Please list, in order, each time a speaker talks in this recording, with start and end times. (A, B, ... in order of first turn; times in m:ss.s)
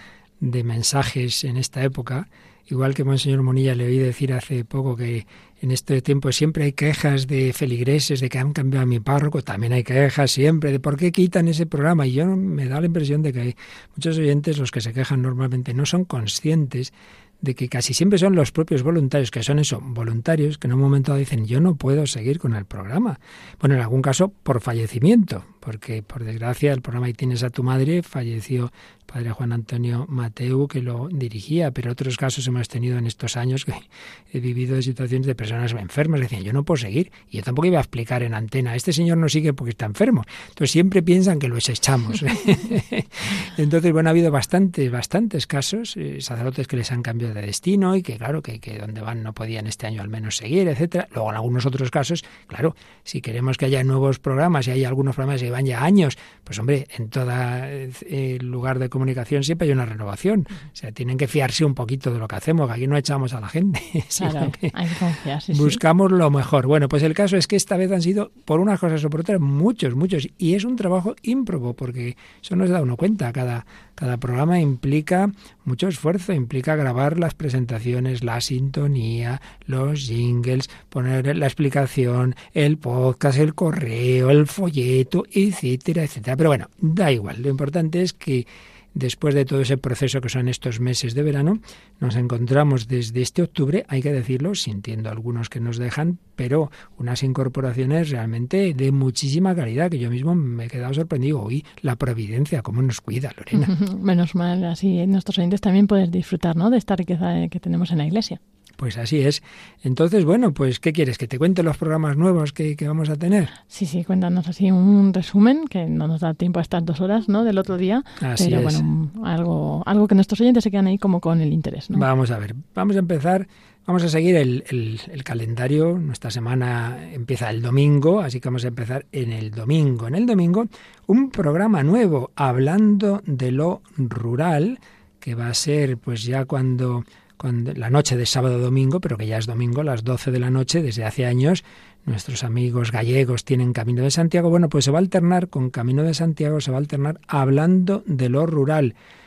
0:00.4-1:04.7 A
1:04.1-1:05.8 B
1:05.5-1:43.7 A
1:43.5-1:48.4 B
1:48.8-1:53.5 A
1:53.7-2:02.0 B
1:58.2-1:58.9 A
2:01.9-2:29.0 A